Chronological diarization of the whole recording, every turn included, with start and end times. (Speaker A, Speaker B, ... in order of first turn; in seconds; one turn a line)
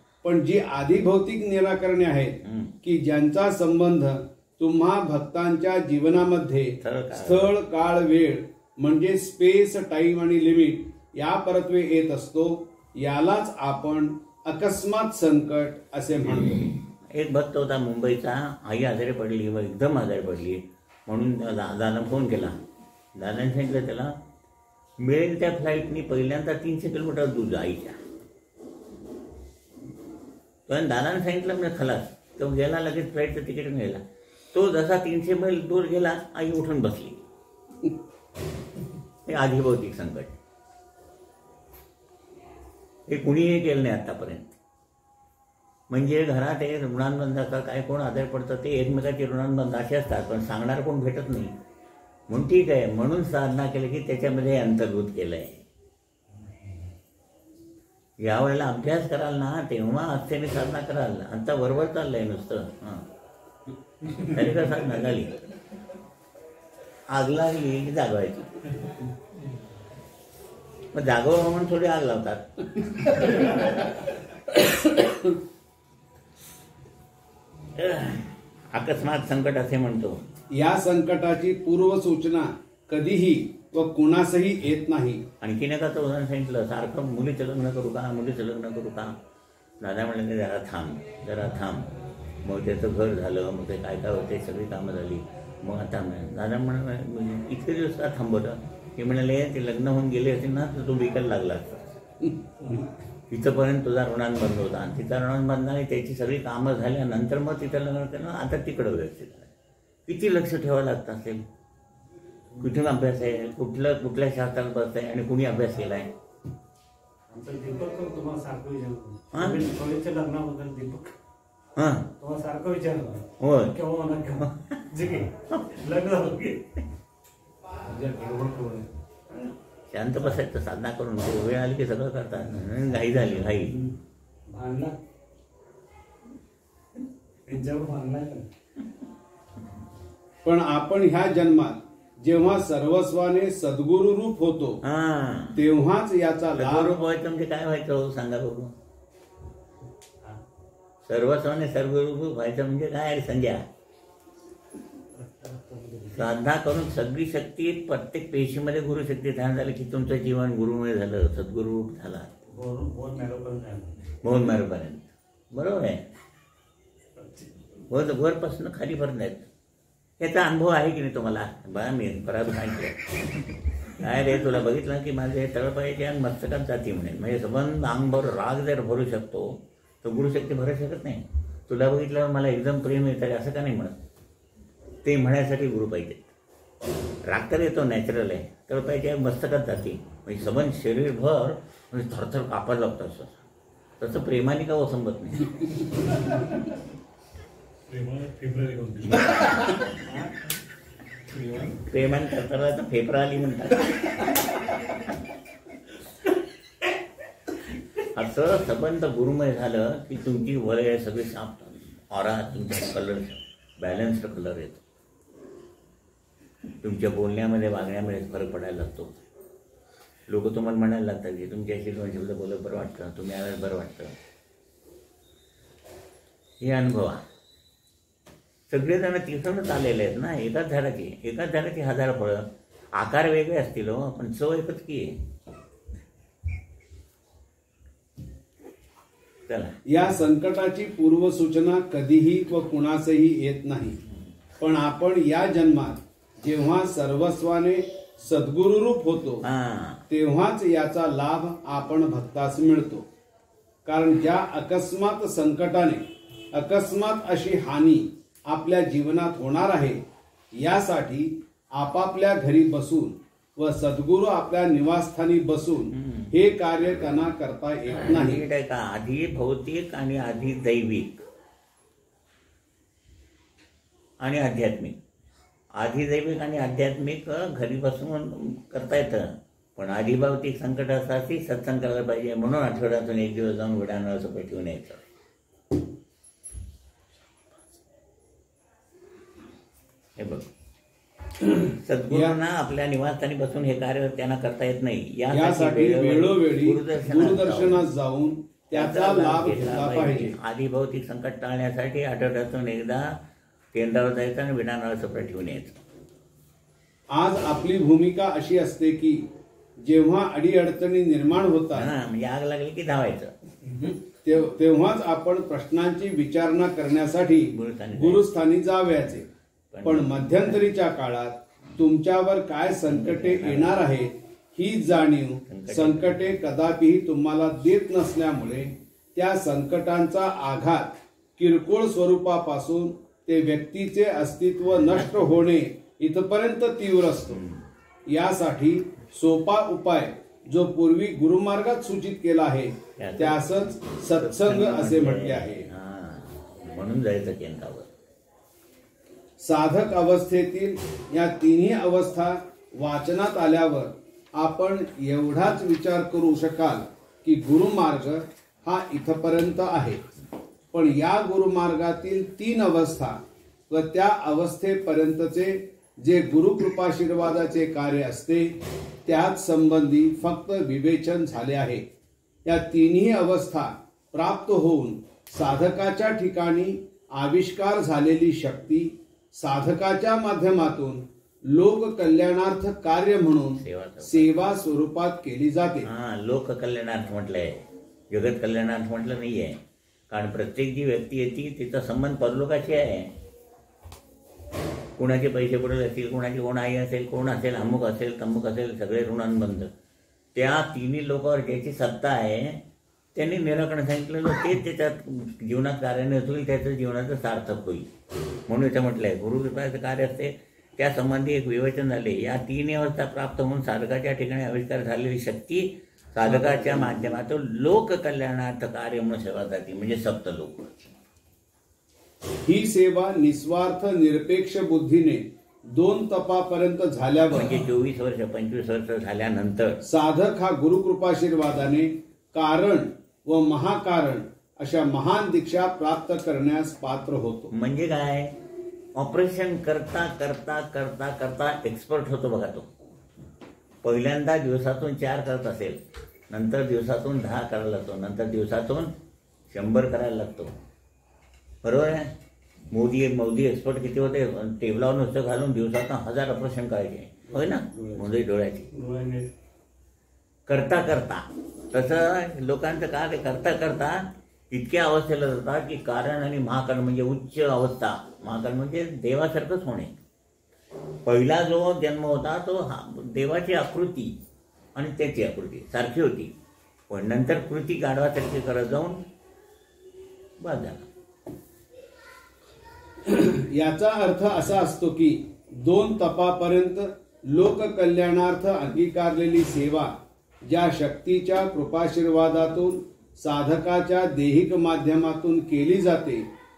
Speaker A: 0.2-16.7
Speaker B: 2.4-2.7
Speaker B: 6.8-7.5
Speaker B: 16.3-22.6
Speaker B: 23.1-24.2
Speaker B: 25.0-28.0
Speaker B: 30.7-37.2
Speaker B: 39.2-40.3
Speaker B: 43.1-44.5
Speaker B: 45.9-51.5
Speaker B: 52.3-55.6
Speaker B: 58.2-63.0
Speaker B: 64.0-65.4
Speaker B: 67.1-68.7
Speaker B: 70.9-73.6
Speaker B: 77.7-80.2
Speaker A: 80.5-85.2
Speaker B: 85.4-89.2
Speaker B: 89.8-102.0
Speaker B: 103.3-109.5
Speaker B: 110.1-111.4
Speaker B: 112.6-116.1
Speaker C: 117.3-121.1
Speaker B: 119.3-119.7
Speaker B: 121.8-122.1
Speaker C: 122.2-126.7
Speaker B: 123.4-123.8
Speaker B: 124.4-124.8
Speaker B: 125.5-125.7
Speaker C: 127.8-128.9
Speaker B: 129.4-133.8
Speaker C: 134.5-135.0
Speaker C: 137.5-138.5
Speaker A: 140.4-144.8
Speaker B: 144.8-145.6
Speaker A: 145.6-147.0
Speaker B: 146.5-148.7
Speaker B: 151.0-153.6
Speaker C: 155.1-156.3
Speaker B: 156.1-162.4
Speaker C: 162.5-164.0
Speaker B: 164.2-166.1
Speaker C: 167.2-167.6
Speaker B: 167.9-169.5
Speaker B: 170.2-173.1
Speaker B: 173.9-184.0
Speaker B: 185.0-186.3
Speaker B: 187.2-193.4
Speaker B: 194.0-195.5
Speaker C: 197.9-200.3
Speaker C: 201.3-201.8
Speaker B: 201.7-204.3
Speaker B: 208.0-214.8
Speaker B: 216.8-219.2
Speaker B: 220.3-224.1
Speaker B: 226.6-227.2
Speaker B: 228.7-235.2
Speaker B: 239.5-239.8
Speaker A: 239.9-244.0
Speaker A: 244.6-249.4
Speaker B: 249.4-250.0
Speaker A: 250.1-253.1
Speaker A: 253.8-260.0
Speaker A: 260.6-268.4
Speaker B: 265.9-267.2
Speaker B: 267.9-271.2
Speaker B: 274.2-275.0
Speaker B: 275.7-285.0
Speaker B: 290.1-290.5
Speaker B: 291.7-297.8
Speaker A: 292.1-292.4
Speaker A: 295.3-300.3
Speaker B: 298.7-303.2
Speaker B: 303.7-305.8
Speaker A: 307.1-309.2
Speaker A: 309.8-311.9
Speaker B: 311.7-313.3
Speaker A: 314.2-319.2
Speaker B: 317.5-318.2
Speaker B: 319.7-320.6
Speaker A: 319.8-337.4
Speaker B: 322.9-323.8
Speaker B: 325.4-326.3
Speaker B: 334.8-335.4
Speaker B: 337.3-337.6
Speaker A: 338.1-345.7
Speaker B: 343.0-347.9
Speaker A: 349.4-360.0
Speaker A: 360.7-363.2
Speaker A: 363.7-371.8
Speaker A: 372.4-385.9
Speaker B: 383.6-384.4
Speaker B: 385.8-389.6
Speaker B: 390.1-393.1
Speaker B: 395.0-399.7
Speaker B: 400.3-402.6
Speaker B: 403.1-407.9
Speaker B: 408.5-420.9
Speaker A: 416.3-417.0
Speaker A: 422.4-427.6
Speaker B: 427.2-429.8
Speaker A: 429.8-437.5
Speaker B: 437.5-438.3
Speaker B: 438.9-442.7
Speaker B: 443.8-448.9
Speaker B: 449.5-450.5
Speaker B: 451.6-452.1
Speaker B: 452.7-458.7
Speaker C: 457.7-458.0
Speaker C: 458.7-459.3
Speaker B: 460.5-469.9
Speaker B: 471.0-474.2
Speaker B: 474.7-476.3
Speaker B: 476.9-479.0
Speaker B: 480.4-480.9
Speaker A: 483.0-489.9
Speaker A: 490.4-496.3